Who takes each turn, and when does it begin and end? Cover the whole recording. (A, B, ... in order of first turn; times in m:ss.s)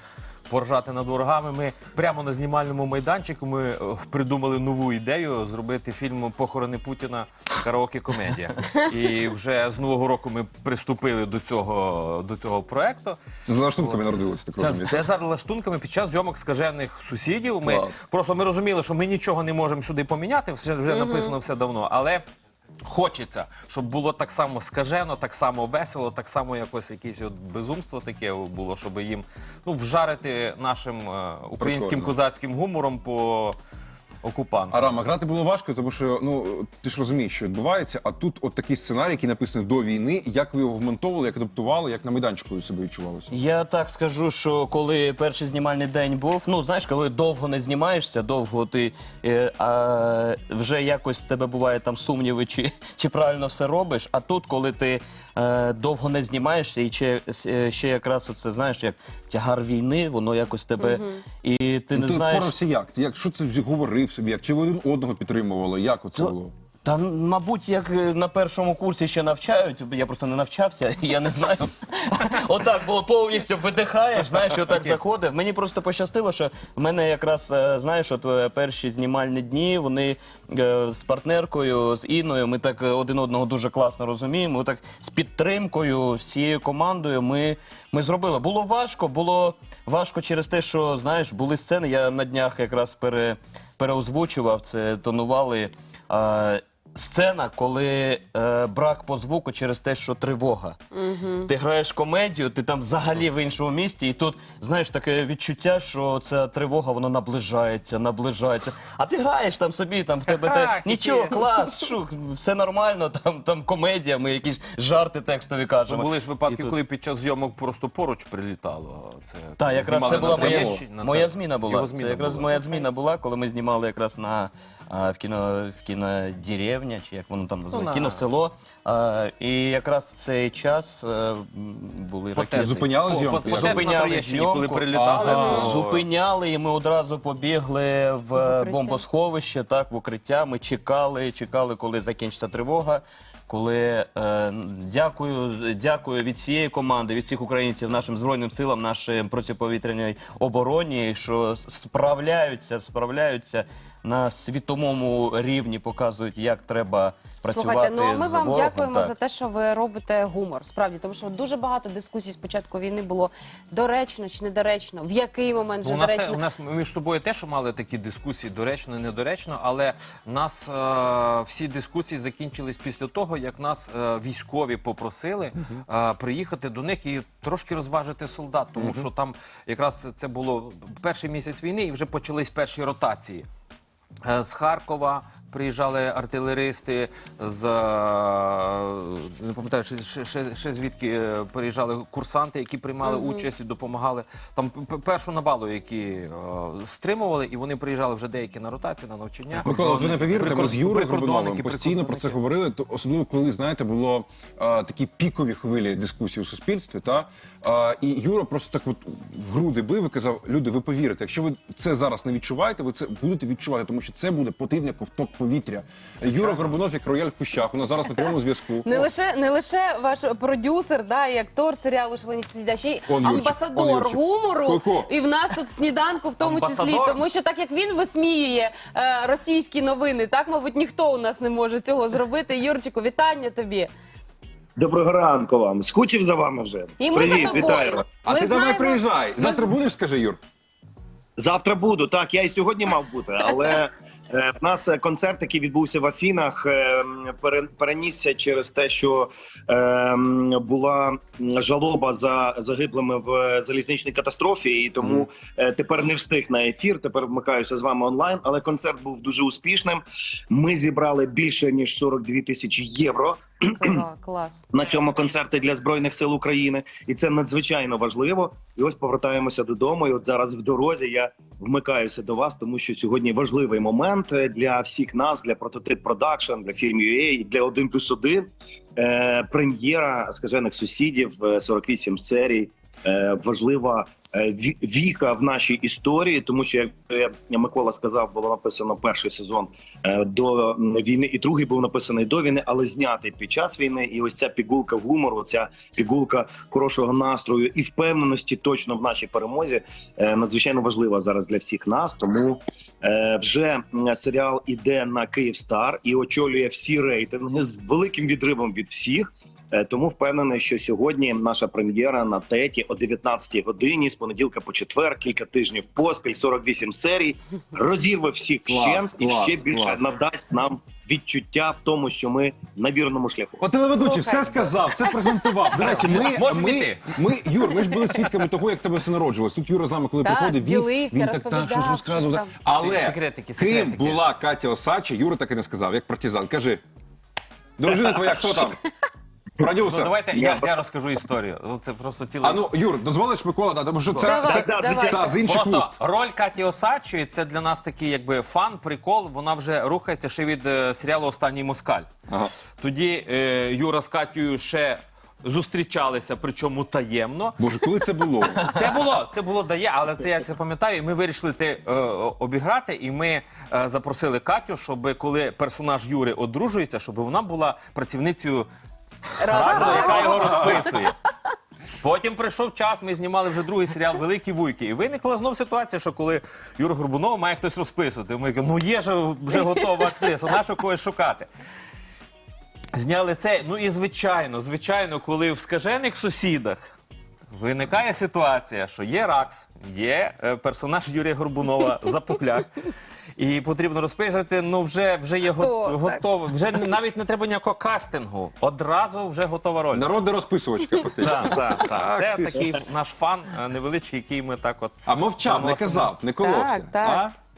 0:00.5-0:13.2 A
0:13.4-0:15.0 B
0:13.8-0:14.0 A
0:14.6-0:22.2 A
0:20.9-0:21.4 C
0:22.9-0:33.6 A
0:31.6-0:32.1 B
0:34.2-0:34.9 A
0:34.7-0:43.3 B
0:43.3-1:02.6 D
1:00.8-1:01.2 C
1:02.0-1:06.5 B
1:06.2-1:56.8 D
1:50.3-1:51.4 A
1:55.9-2:02.9 A
1:59.6-2:12.9 D
2:07.7-2:08.3 A
2:12.4-2:16.0 A
2:12.5-2:13.8 B
2:13.4-2:39.1 D
2:15.0-2:15.7 B
2:15.3-2:15.7 C
2:18.4-2:19.0 C
2:37.5-2:46.4 C
2:45.8-3:03.5 A
2:58.8-2:59.1 B
3:04.2-3:22.4 A
3:13.1-3:13.4 C
3:19.6-3:39.0 B
3:36.2-3:36.7 A
3:38.9-3:53.9 C
3:43.1-3:45.1 B
3:46.4-3:47.2 A
3:54.8-3:58.0 E
3:57.0-3:59.7 C
3:58.1-4:00.4 B
4:01.4-4:24.0 E
4:23.8-4:24.7 C
4:24.7-5:23.7 E
5:18.7-5:20.0 B
5:23.6-5:36.8 B
5:23.8-5:26.2 C
5:25.7-5:27.1 A
5:30.2-5:32.5 C
5:32.8-5:34.2 A
5:37.8-5:38.8 B
5:39.6-5:40.2 B
5:39.9-5:42.7 A
5:40.3-5:40.7 E
5:42.4-5:46.0 B
5:44.1-5:44.4 A
5:44.3-5:45.3 C
5:44.3-5:45.4 E
5:45.4-5:52.1 A
5:52.3-5:52.5 B
5:52.8-5:57.7 A
5:57.6-5:58.6 B
5:58.6-6:08.7 A
6:09.4-6:11.0 C
6:09.4-6:11.2 A
6:12.0-6:21.5 A
6:22.9-6:26.9 A
6:27.5-6:32.8 A
6:33.4-6:40.1 A
6:35.5-6:36.2 C
6:39.9-6:42.8 B
6:41.2-6:46.2 A
6:45.1-6:47.3 B
6:46.4-6:47.3 C